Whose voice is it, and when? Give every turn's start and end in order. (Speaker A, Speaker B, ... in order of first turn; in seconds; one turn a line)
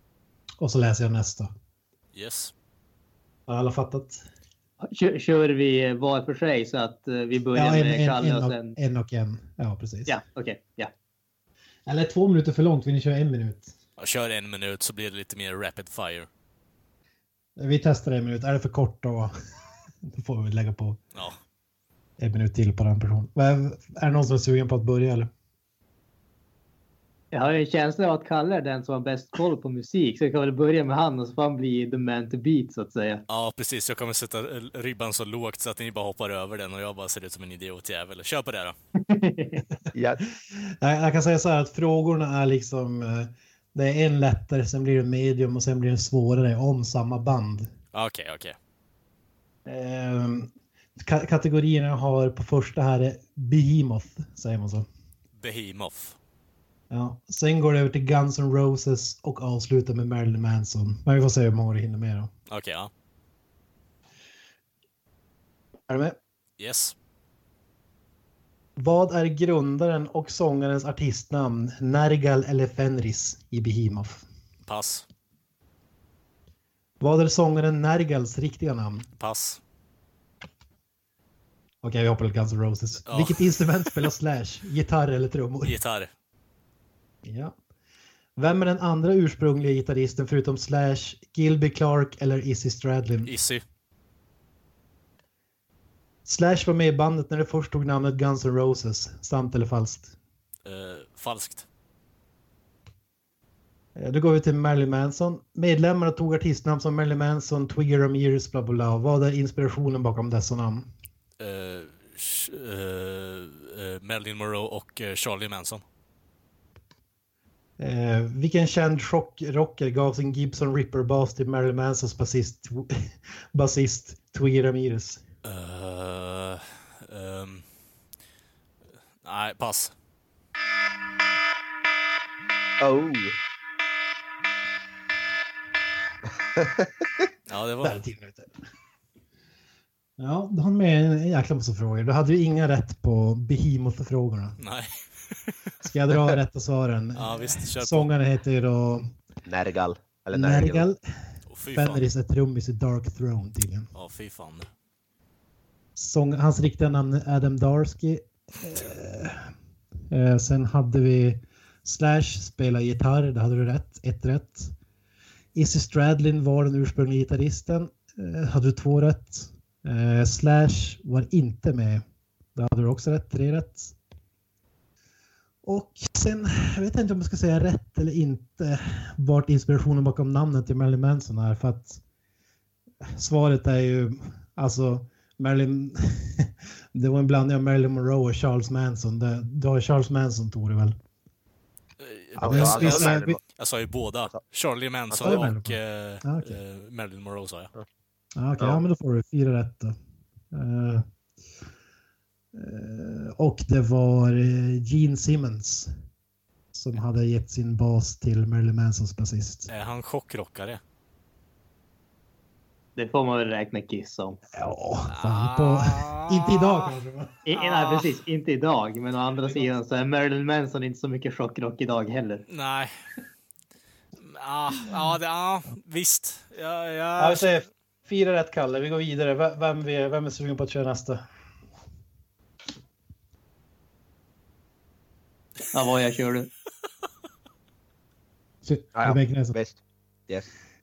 Speaker A: 0.6-1.5
Speaker B: 2.1-2.5
Speaker A: 3.5-4.2
Speaker C: 4.8-8.8
Speaker A: 7.5-10.2
Speaker C: 10.1-10.9
Speaker A: 11.9-13.7
Speaker B: 14.0-16.3
Speaker A: 17.6-19.3
Speaker A: 20.0-21.0
Speaker A: 22.2-25.3
Speaker C: 27.3-33.2
Speaker B: 33.3-38.7
Speaker C: 39.0-39.6
Speaker D: 39.9-40.2
Speaker A: 40.5-47.7
Speaker B: 47.9-48.5
Speaker A: 49.6-54.9
Speaker B: 55.4-56.2
Speaker A: 56.9-62.3
Speaker B: 62.5-62.9
Speaker A: 65.9-66.2
Speaker B: 66.6-66.9
Speaker A: 68.8-74.2
Speaker B: 74.7-75.0
Speaker A: 77.0-79.1
Speaker B: 79.2-79.6
Speaker A: 81.8-85.8
Speaker B: 83.0-84.1
Speaker B: 85.6-86.1
Speaker A: 87.2-87.5
Speaker A: 88.4-93.3
Speaker B: 93.2-93.6
Speaker A: 96.2-100.1
Speaker B: 100.6-101.7
Speaker A: 104.0-110.9
Speaker B: 111.4-115.8
Speaker A: 117.8-125.2
Speaker B: 125.4-127.6
Speaker B: 129.2-129.9
Speaker D: 132.8-133.3
Speaker B: 137.5-138.0
Speaker A: 137.8-138.5
Speaker A: 140.2-144.6
Speaker B: 144.6-145.7
Speaker A: 145.8-149.1
Speaker B: 147.2-148.1
Speaker D: 149.4-150.9
Speaker A: 150.3-151.0
Speaker B: 151.5-152.0
Speaker A: 151.7-153.9
Speaker B: 153.9-154.7
Speaker A: 156.0-159.5
Speaker A: 160.1-164.7
Speaker A: 165.5-172.0
Speaker A: 172.6-173.9
Speaker A: 175.6-182.0
Speaker A: 183.1-190.9
Speaker B: 192.0-197.7
Speaker A: 192.4-193.4
Speaker D: 192.4-193.4
Speaker D: 195.1-195.4
Speaker A: 195.2-196.6
Speaker A: 198.3-199.9
Speaker A: 200.5-201.0
Speaker A: 202.5-205.9
Speaker A: 206.7-209.7
Speaker B: 209.7-210.8
Speaker C: 212.9-214.4
Speaker A: 214.6-217.4
Speaker B: 215.1-216.9
Speaker C: 217.4-222.4
Speaker B: 217.5-218.1
Speaker A: 219.4-219.7
Speaker B: 222.5-222.9
Speaker B: 224.2-227.5
Speaker A: 227.2-231.2
Speaker C: 235.7-236.5
Speaker A: 238.6-239.6
Speaker D: 238.9-240.5